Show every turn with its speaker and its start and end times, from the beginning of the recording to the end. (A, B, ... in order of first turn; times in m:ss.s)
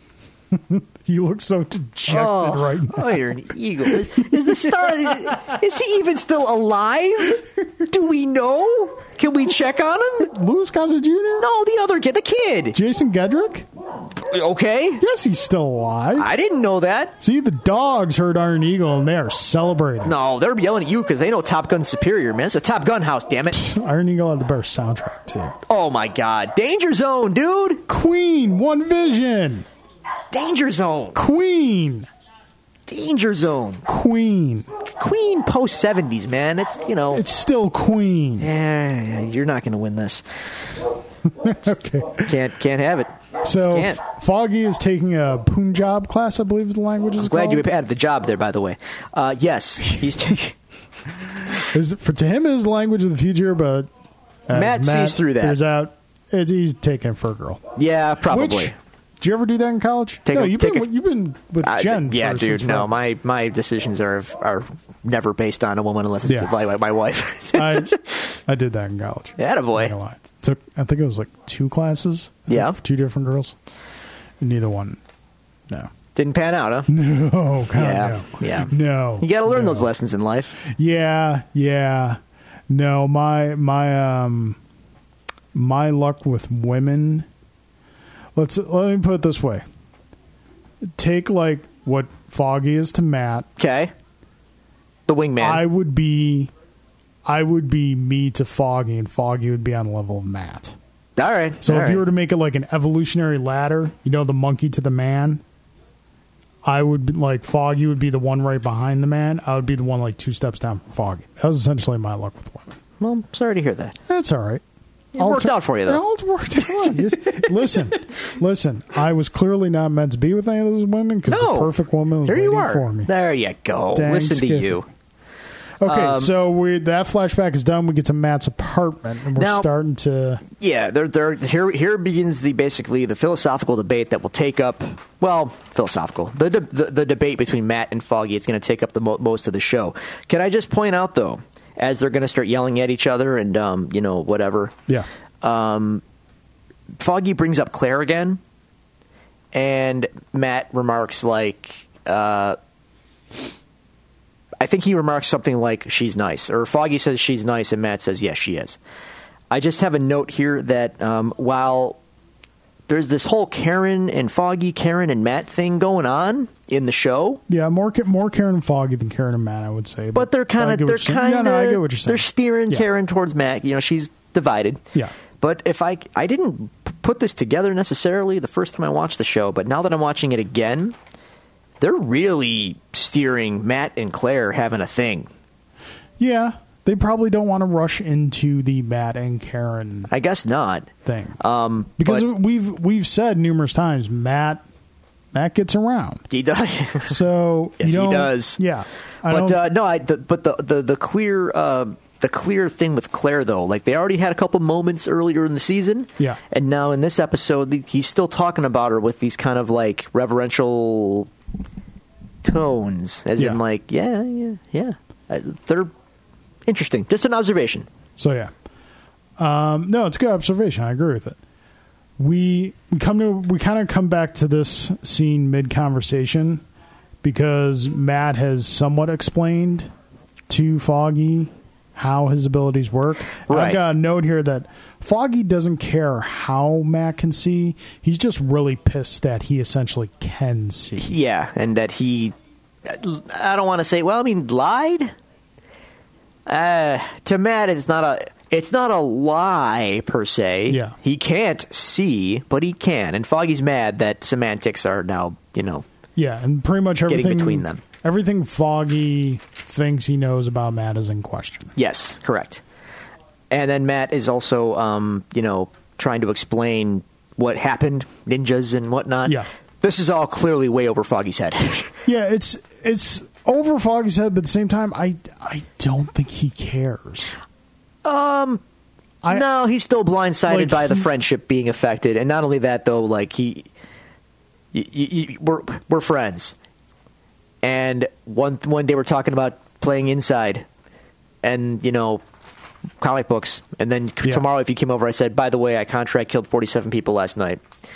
0:00.5-0:03.3 A
0:02.1-0:10.3 B
0:03.8-0:05.6 A
0:10.2-0:11.5 A
0:11.4-0:12.8 B
0:12.7-0:13.7 A
0:14.1-0:15.0 B
0:15.0-0:16.3 A
0:16.2-0:17.2 B
0:17.2-0:20.1 A
0:20.0-0:23.6 B
0:23.5-0:25.6 A
0:25.7-0:27.8 B
0:27.9-0:29.7 A
0:30.3-0:31.2 B
0:31.2-0:32.1 A
0:32.9-0:33.8 B
0:33.9-0:34.7 A
0:34.8-0:37.2 B
0:37.1-0:38.5 A
0:38.4-0:40.7 B
0:41.3-0:42.3 A
0:42.2-0:43.1 B
0:43.4-0:47.6 A
0:43.6-0:44.0 B
0:47.2-0:50.6 B
0:51.5-0:53.9 A
0:54.5-0:57.6 A
0:54.5-0:55.6 B
0:57.8-0:58.7 B
0:58.3-1:02.9 A
1:00.3-1:00.9 B
1:01.6-1:08.3 B
1:06.3-1:06.5 A
1:07.6-1:13.6 A
1:09.4-1:09.9 B
1:12.5-1:12.8 B
1:14.4-1:15.0 A
1:16.2-1:16.9 B
1:16.9-1:19.9 A
1:17.8-1:20.6 B
1:20.6-1:22.2 A
1:22.7-1:24.6 A
1:25.5-1:27.3 A
1:28.4-1:29.6 A
1:31.0-1:33.5 A
1:33.6-1:33.9 B
1:35.1-1:35.6 B
1:35.4-1:36.5 A
1:37.3-1:40.8 A
1:41.2-1:42.0 B
1:41.6-1:45.4 A
1:46.6-1:52.8 A
1:53.0-1:54.0 B
1:54.1-1:54.6 A
1:55.1-1:56.0 B
1:55.2-2:03.1 A
1:56.6-1:57.0 B
2:01.3-2:04.8 B
2:04.0-2:04.8 A
2:05.8-2:10.4 A
2:05.8-2:06.3 B
2:09.4-2:09.7 B
2:10.5-2:24.8 B
2:25.4-2:26.0 B
2:27.0-2:28.4 B
2:29.5-2:32.6 B
2:34.6-2:38.8 B
2:39.5-2:42.0 B
2:42.9-2:47.4 B
2:47.5-2:52.8 A
2:50.2-2:54.8 B
2:55.4-3:01.0 B
3:01.8-3:05.3 B
3:06.2-3:10.1 A
3:10.1-3:12.3 B
3:11.0-3:11.4 A
3:12.0-3:14.6 A
3:15.3-3:16.3 A
3:16.3-3:17.2 B
3:17.1-3:19.7 A
3:17.8-3:18.6 B
3:19.2-3:31.3 B
3:32.4-3:35.9 B
3:36.7-3:37.9 B
3:38.2-3:38.5 A
3:39.4-3:41.4 A
3:42.2-3:46.6 A
3:47.2-3:49.9 A
3:50.5-4:01.1 A
3:53.5-3:53.8 B
4:01.0-4:05.1 B
4:06.5-4:15.8 B
4:10.7-4:11.0 A
4:16.2-4:21.7 A
4:17.1-4:17.8 B
4:21.8-4:22.6 B
4:23.5-4:32.0 B
4:32.1-4:37.4 A
4:38.0-4:38.6 B
4:39.3-4:43.7 B
4:40.5-4:41.1 A
4:44.7-4:46.6 B
4:47.6-4:50.7 B
4:51.4-4:52.2 B
4:53.0-4:57.6 B